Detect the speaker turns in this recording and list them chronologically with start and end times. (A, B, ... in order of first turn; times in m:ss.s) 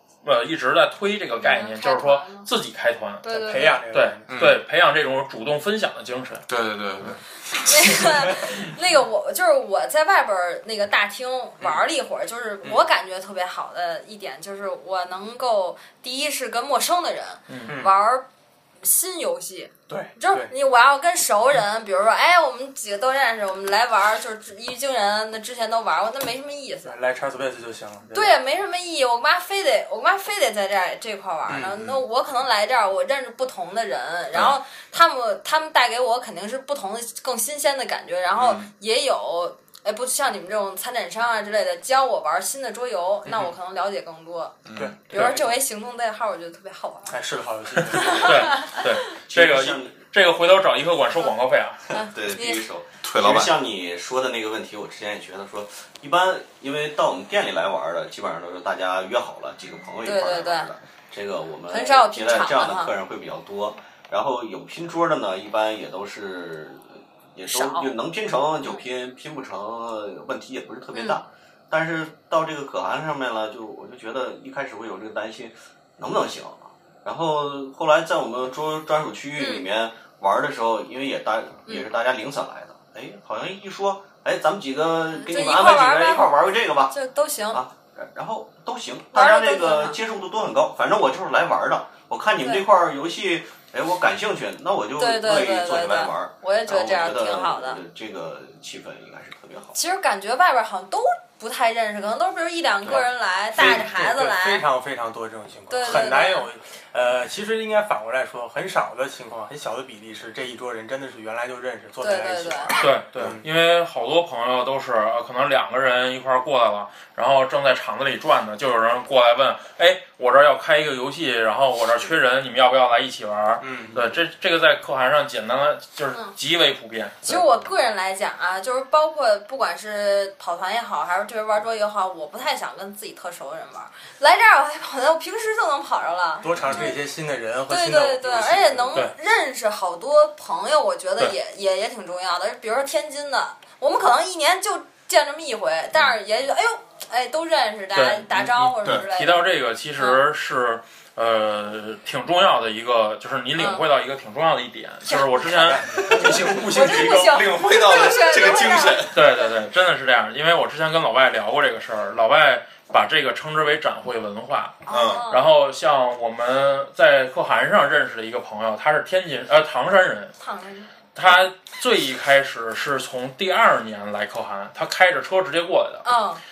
0:00.2-0:03.3 A
0:01.4-0:02.5 B
0:03.2-0:03.8 B
0:03.3-0:04.3 C
0:03.9-0:06.4 A
0:04.3-0:04.6 D
0:06.5-0:07.9 D
0:07.6-0:18.3 B
0:17.5-0:17.8 A
0:17.7-0:17.9 C
0:18.8-0:27.0 B
0:19.9-0:20.5 C
0:26.8-0:28.4 C
0:28.1-0:47.2 B
0:31.5-0:31.8 C
0:31.6-0:32.0 D
0:38.4-0:38.7 D
0:44.7-0:45.0 D
0:44.8-0:45.6 C
0:47.1-0:48.6 C
0:47.8-0:48.8 B
0:48.0-0:48.6 E
0:48.2-0:51.8 A
0:49.3-0:50.0 E
0:51.9-0:52.7 B
0:51.9-1:27.0 E
0:53.0-0:53.6 D
1:00.0-1:00.7 B
1:01.7-1:02.9 B
1:07.5-1:07.9 B
1:10.9-1:11.2 B
1:19.4-1:19.6 B
1:25.1-1:26.3 B
1:26.9-1:27.6 B
1:27.5-1:39.8 E
1:29.1-1:30.0 B
1:32.4-1:32.7 B
1:35.0-1:37.8 B
1:39.8-1:44.7 B
1:42.8-1:53.4 C
1:43.6-1:43.8 D
1:45.7-1:46.5 B
1:52.0-1:52.8 B
1:52.8-2:07.4 A
2:03.6-2:04.2 C
2:07.2-2:17.0 B
2:16.4-2:19.0 C
2:17.7-2:29.5 B
2:27.9-2:35.8 A
2:33.6-2:33.9 B
2:35.1-2:39.2 B
2:35.6-2:37.3 C
2:35.8-2:39.2 D
2:39.1-2:50.3 A
2:44.9-2:45.5 B
2:44.9-2:45.3 D
2:50.4-2:50.9 B
2:51.2-2:56.1 A
2:56.0-2:56.4 B